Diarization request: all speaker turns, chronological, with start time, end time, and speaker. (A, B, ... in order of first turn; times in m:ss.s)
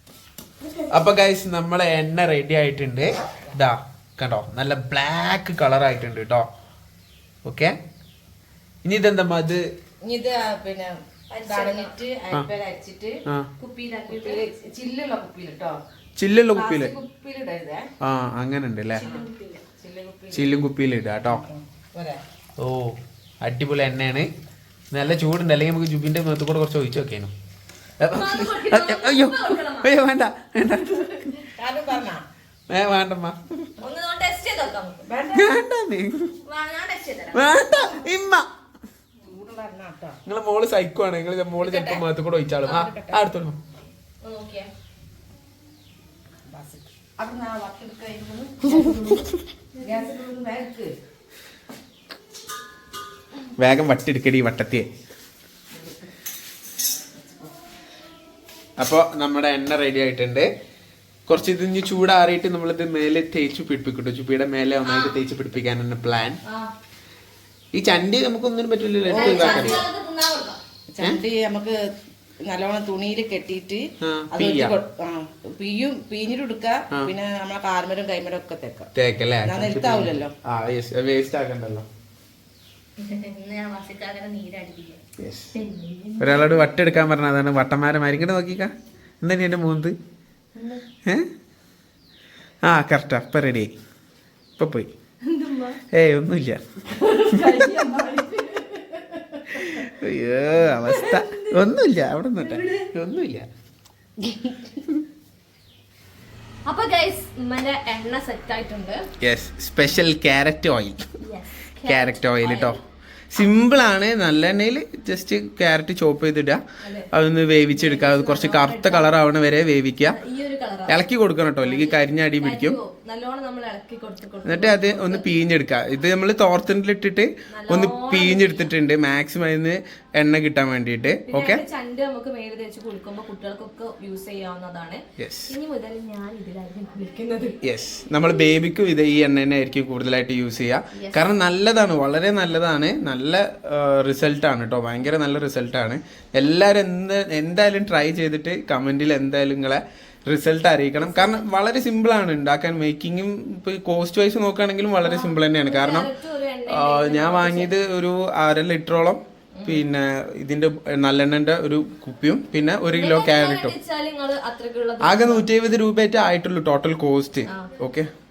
0:00.9-0:06.5 A
0:07.4-0:07.8 A
0:08.8-0:09.6 A
0:10.0-0:10.9 B
0:11.3-0:11.9 C
0:11.5-0:13.2 B
0:13.6-0:14.4 C
0:14.1-0:15.8 B
0:16.2-0:16.9 A
0:16.5-0:17.9 B
0:18.0-0:19.0 A
0:19.0-0:19.6 C
0:19.8-0:20.6 B
0:20.3-0:21.4 A
0:21.2-0:22.2 B
0:22.6-0:24.3 A
0:24.9-0:27.3 A
0:28.0-0:31.5 A
0:28.1-0:29.9 C
0:31.6-0:32.2 B
0:32.7-0:33.7 A
0:33.8-0:35.1 C
0:35.0-0:35.6 B
0:35.3-0:36.3 A
0:36.5-0:37.6 C
0:37.3-0:38.5 A
0:39.2-0:40.2 B
0:40.3-0:43.6 A
0:41.6-0:42.0 C
0:42.7-0:43.2 B
0:44.2-0:44.7 C
0:46.5-0:49.1 B
0:48.6-0:50.2 C
0:49.8-0:50.9 B
0:53.6-0:54.9 A
0:55.7-0:56.1 B
0:57.1-0:57.6 B
0:58.8-1:00.5 A
1:01.3-1:06.4 A
1:04.8-1:05.2 C
1:06.4-1:06.7 C
1:07.7-1:09.8 A
1:09.1-1:09.8 B
1:09.1-1:10.6 C
1:10.9-1:11.8 B
1:12.4-1:18.9 B
1:14.0-1:14.8 A
1:19.0-1:21.9 A
1:19.4-1:20.3 B
1:23.0-1:25.0 C
1:25.2-1:25.5 A
1:25.5-1:27.1 C
1:26.2-1:30.0 A
1:30.6-1:30.8 C
1:32.6-1:33.7 A
1:34.6-1:34.9 A
1:35.2-1:35.8 C
1:35.9-1:36.6 A
1:36.9-1:38.9 C
1:38.9-1:39.2 B
1:39.5-1:43.5 A
1:40.6-1:41.8 C
1:42.4-1:42.9 C
1:44.2-1:44.8 B
1:46.7-1:49.0 C
1:49.2-1:51.0 A
1:51.2-1:52.8 C
1:51.8-1:52.8 A
1:53.3-2:00.2 A
1:56.8-1:59.2 C
2:00.1-2:01.1 C
2:00.9-2:02.8 A
2:01.6-2:05.3 C
2:04.4-2:11.6 A
2:07.5-2:08.7 C
2:11.2-2:17.6 C
2:15.2-2:15.5 A
2:17.6-2:36.1 A
2:20.9-2:21.3 C
2:31.0-2:31.5 C
2:35.0-2:37.8 C
2:36.7-2:43.8 A
2:39.6-2:39.8 C
2:42.9-2:45.5 C
2:45.0-2:48.1 A
2:47.5-2:47.7 C